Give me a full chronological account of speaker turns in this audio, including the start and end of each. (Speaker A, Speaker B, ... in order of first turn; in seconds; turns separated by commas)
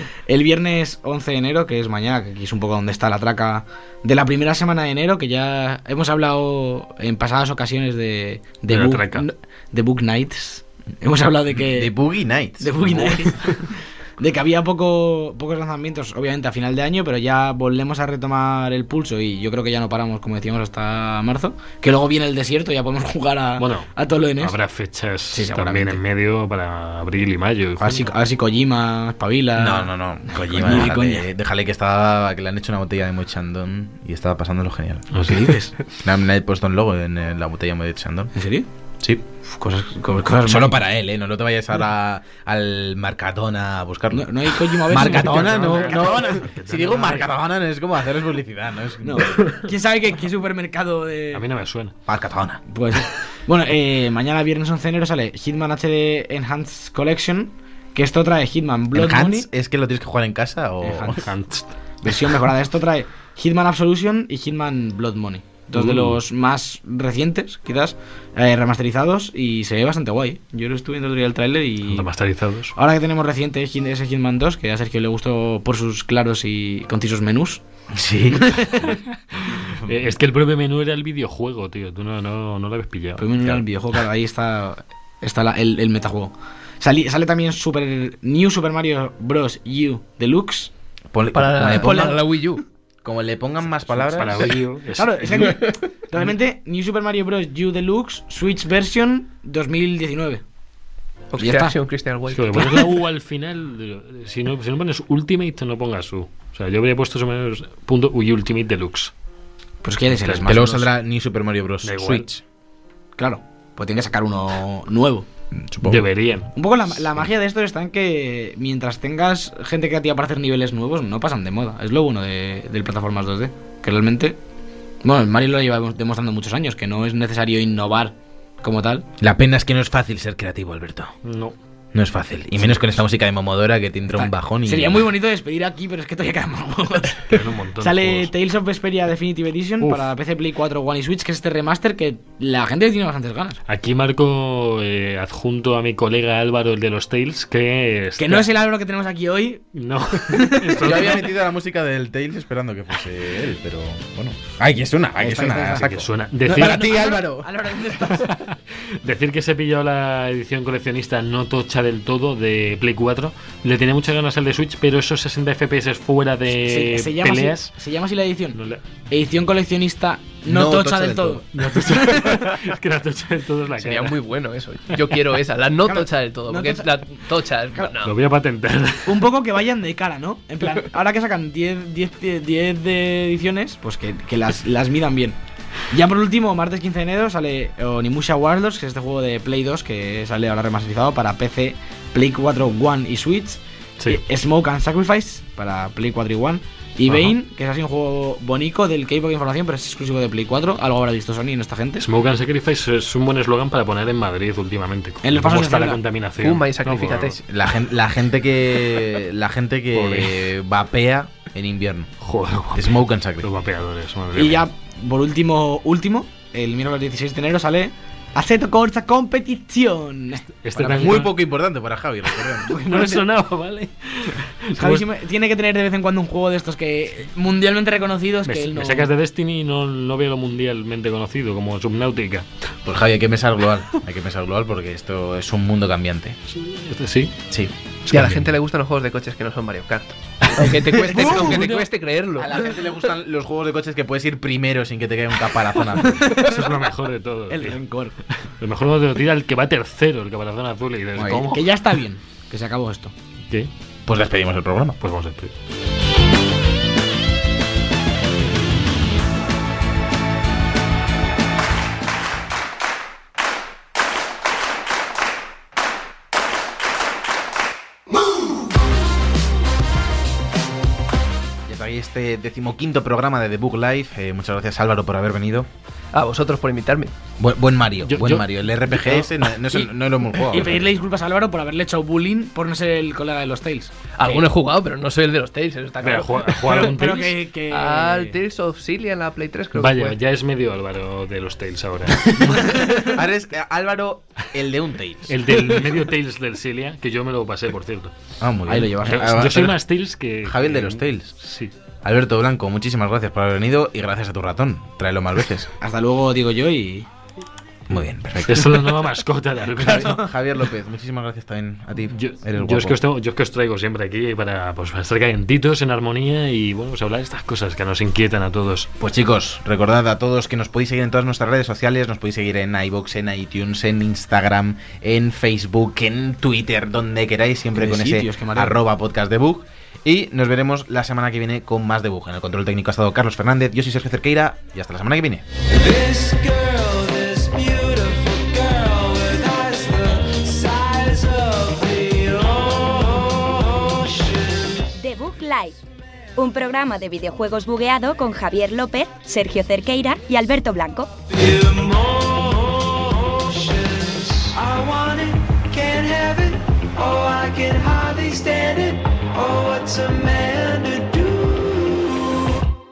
Speaker A: 0.3-11.9, Speaker B: 8.7-9.3, Speaker C: 11.6-13.3, Speaker A: 12.6-24.6, Speaker B: 23.6-28.1, Speaker A: 25.3-26.0, Speaker A: 27.9-31.3, Speaker C: 29.6-35.3, Speaker B: 35.1-35.5, Speaker A: 35.3-35.8, Speaker C: 35.9-38.3, Speaker A: 38.4-38.7, Speaker A: 39.6-40.8, Speaker C: 40.5-49.4, Speaker A: 44.1-46.4, Speaker B: 44.9-47.3, Speaker A: 49.0-51.5, Speaker B: 51.3-52.0, Speaker C: 52.1-52.6, Speaker A: 52.7-59.5, Speaker C: 58.9-61.2, Speaker A: 60.8-61.2, Speaker B: 61.2-61.8, Speaker A: 62.0-72.1, Speaker B: 65.7-66.2, Speaker B: 71.9-72.8, Speaker A: 72.8-77.6, Speaker C: 77.9-78.6, Speaker A: 78.3-79.0, Speaker B: 78.8-83.6, Speaker A: 83.2-90.7, Speaker C: 91.1-92.2, Speaker D: 91.3-92.6, Speaker A: 91.6-92.2, Speaker C: 93.0-94.5, Speaker B: 94.2-95.7, Speaker A: 95.0-100.4, Speaker D: 101.3-102.9, Speaker A: 101.4-101.8, Speaker B: 102.3-109.1, Speaker A: 109.8-110.9, Speaker B: 110.1-110.8, Speaker C: 110.5-112.4, Speaker B: 111.8-112.3, Speaker A: 113.2-115.3, Speaker C: 115.5-116.1, Speaker B: 115.8-116.5, Speaker A: 116.6-124.4, Speaker A: 125.0-129.1, Speaker C: 129.2-131.1, Speaker B: 131.2-131.6, Speaker C: 131.9-135.1, Speaker A: 132.6-132.9, Speaker A: 134.2-143.6, Speaker B: 137.3-138.3, Speaker B: 139.8-140.1, Speaker B: 143.7-148.5, Speaker A: 148.2-151.3, Speaker B: 149.7-151.3, Speaker C: 150.8-157.5, Speaker A: 155.2-158.3, Speaker B: 155.8-157.0, Speaker B: 158.0-167.7, Speaker A: 166.5-172.5, Speaker B: 168.6-168.8, Speaker C: 170.4-171.4, Speaker B: 171.5-174.2, Speaker D: 173.8-178.1, Speaker A: 175.8-177.9, Speaker B: 178.0-179.2, Speaker A: 179.1-185.4, Speaker A: 185.9-202.1, Speaker B: 202.0-207.4, Speaker A: 205.2-206.0, Speaker D: 206.4-207.4, Speaker C: 207.4-212.1, Speaker B: 209.9-210.5, Speaker B: 212.2-214.7, Speaker C: 212.8-213.5, Speaker A: 214.4-220.5, Speaker B: 220.6-221.4, Speaker C: 220.8-222.8, Speaker A: 222.7-223.2, Speaker B: 222.7-225.1, Speaker A: 224.8-229.1, Speaker B: 228.5-232.5, Speaker C: 232.9-236.4, Speaker B: 236.5-237.3, Speaker B: 238.1-238.5, Speaker D: 238.1-242.9, Speaker B: 240.6-241.7, Speaker A: 241.1-241.8, Speaker C: 242.4-246.3, Speaker B: 246.2-247.8, Speaker A: 246.2-246.7, Speaker A: 247.5-248.2, Speaker B: 248.3-251.7, Speaker A: 251.2-253.1, Speaker C: 254.1-255.0, Speaker B: 255.0-255.5, Speaker C: 271.7-275.7, Speaker D: 276.1-277.1, Speaker C: 277.4-280.9, Speaker B: 278.0-279.2, Speaker A: 279.7-284.1, Speaker D: 284.1-286.9, Speaker B: 286.0-287.4, Speaker A: 286.6-288.4, Speaker D: 287.7-290.2, Speaker B: 289.8-292.7, Speaker C: 292.4-295.4, Speaker B: 295.3-298.1, Speaker C: 298.4-299.8, Speaker A: 298.7-299.2, Speaker B: 299.0-301.7, Speaker C: 300.4-301.4, Speaker C: 302.0-305.7, Speaker A: 305.8-307.1, Speaker C: 307.9-309.0, Speaker B: 308.5-310.2, Speaker C: 309.8-313.0, Speaker A: 309.9-310.2, Speaker B: 312.1-318.9, Speaker C: 319.0-335.5, Speaker A: 327.8-328.8, Speaker E: 335.7-344.9, Speaker F: 345.0-345.8, Speaker F: 346.4-351.1, Speaker E: 351.3-362.6